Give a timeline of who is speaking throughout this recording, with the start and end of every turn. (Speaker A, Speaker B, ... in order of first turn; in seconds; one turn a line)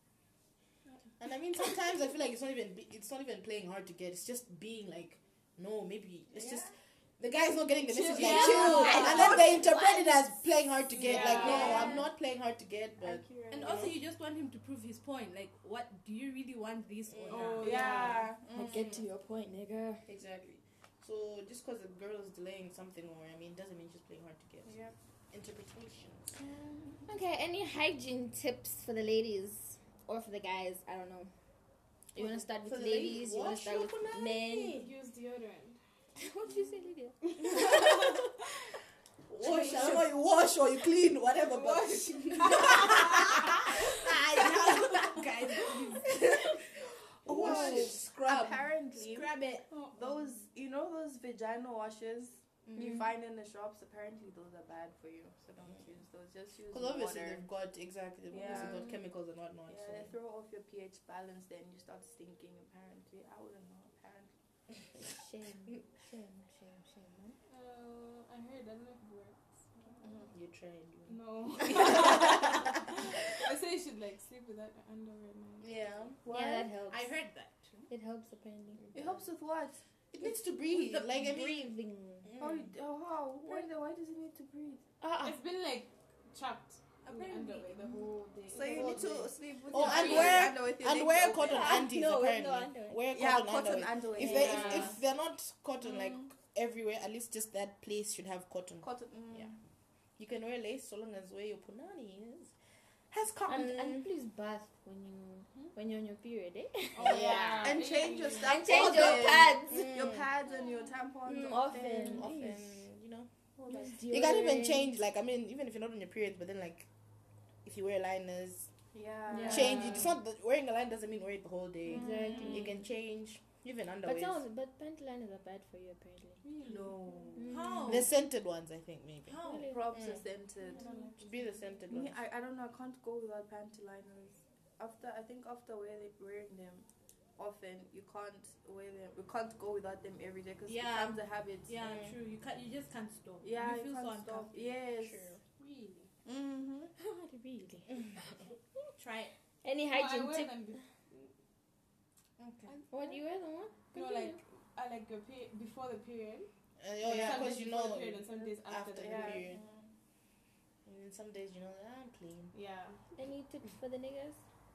Speaker A: 1.2-14.0
Speaker B: 6.3-6.7
Speaker B: 8.1-9.7
Speaker C: 8.1-10.3
Speaker D: 8.1-9.3
Speaker E: 8.2-9.2
Speaker E: 11.0-11.9
Speaker B: 11.0-12.1
Speaker D: 11.4-11.9
Speaker C: 11.4-12.0
Speaker B: 13.0-14.0
Speaker D: 13.5-18.1
Speaker A: 17.1-17.6
Speaker E: 17.3-18.3
Speaker B: 17.6-18.7
Speaker A: 18.4-19.1
Speaker C: 18.5-20.0
Speaker A: 20.1-26.4
Speaker B: 24.6-24.9
Speaker B: 26.4-27.1
Speaker C: 27.1-31.3
Speaker C: 32.1-34.9
Speaker A: 32.2-34.9
Speaker E: 34.7-35.8
Speaker C: 36.2-38.0
Speaker A: 39.3-43.6
Speaker D: 39.6-40.1
Speaker E: 41.4-43.7
Speaker D: 44.0-46.6
Speaker A: 44.8-45.2
Speaker A: 47.2-48.6
Speaker B: 47.3-57.5
Speaker D: 47.3-47.9
Speaker D: 48.9-49.7
Speaker E: 49.7-50.3
Speaker D: 52.7-53.0
Speaker A: 56.7-60.1
Speaker B: 58.3-58.9
Speaker C: 58.4-58.9
Speaker B: 59.7-64.3
Speaker C: 65.0-67.4
Speaker E: 67.5-70.1
Speaker B: 70.0-70.3
Speaker A: 70.3-72.4
Speaker E: 71.1-72.5
Speaker E: 73.3-75.8
Speaker A: 75.6-76.2
Speaker C: 76.2-77.4
Speaker B: 76.3-76.7
Speaker D: 76.5-77.9
Speaker C: 77.9-78.8
Speaker A: 78.9-79.2
Speaker B: 78.9-79.9
Speaker A: 80.1-82.7
Speaker C: 80.7-82.3
Speaker B: 82.4-84.8
Speaker C: 85.0-85.4
Speaker E: 85.2-90.5
Speaker D: 87.0-87.8
Speaker B: 88.5-91.8
Speaker A: 88.7-99.6
Speaker C: 91.4-93.0
Speaker D: 91.5-92.3
Speaker B: 93.1-95.0
Speaker E: 94.2-95.0
Speaker B: 95.8-96.1
Speaker B: 98.8-99.6
Speaker A: 100.2-102.6
Speaker A: 103.1-104.1
Speaker C: 103.5-107.5
Speaker E: 106.9-108.6
Speaker A: 107.0-110.3
Speaker C: 108.4-109.9
Speaker B: 108.6-112.3
Speaker E: 110.5-110.9
Speaker C: 111.2-112.8
Speaker A: 111.8-116.9
Speaker B: 113.6-114.0
Speaker C: 113.7-114.9
Speaker A: 117.6-118.7
Speaker B: 118.9-120.1
Speaker C: 119.3-120.0
Speaker A: 119.4-124.4
Speaker C: 121.9-122.8
Speaker E: 122.0-122.7
Speaker C: 124.0-126.4
Speaker E: 126.4-127.3
Speaker B: 126.6-127.8
Speaker C: 127.3-128.1
Speaker D: 127.5-128.1
Speaker A: 127.9-130.3
Speaker D: 129.3-129.8
Speaker C: 129.4-129.9
Speaker B: 129.7-131.1
Speaker E: 130.6-131.7
Speaker A: 131.1-132.2
Speaker B: 131.9-141.9
Speaker D: 140.7-144.8
Speaker A: 141.8-142.2
Speaker B: 143.4-145.4
Speaker A: 145.0-145.4
Speaker E: 145.6-146.1
Speaker B: 146.2-146.9
Speaker C: 147.0-148.5
Speaker D: 149.0-149.3
Speaker C: 149.6-150.6
Speaker E: 149.9-151.3
Speaker D: 152.4-152.8
Speaker E: 152.7-153.2
Speaker C: 152.9-154.4
Speaker E: 153.8-156.5
Speaker A: 156.8-159.6
Speaker E: 157.0-159.5
Speaker B: 157.1-157.4
Speaker B: 159.0-159.9
Speaker A: 160.8-162.5
Speaker E: 162.5-163.0
Speaker C: 163.2-164.4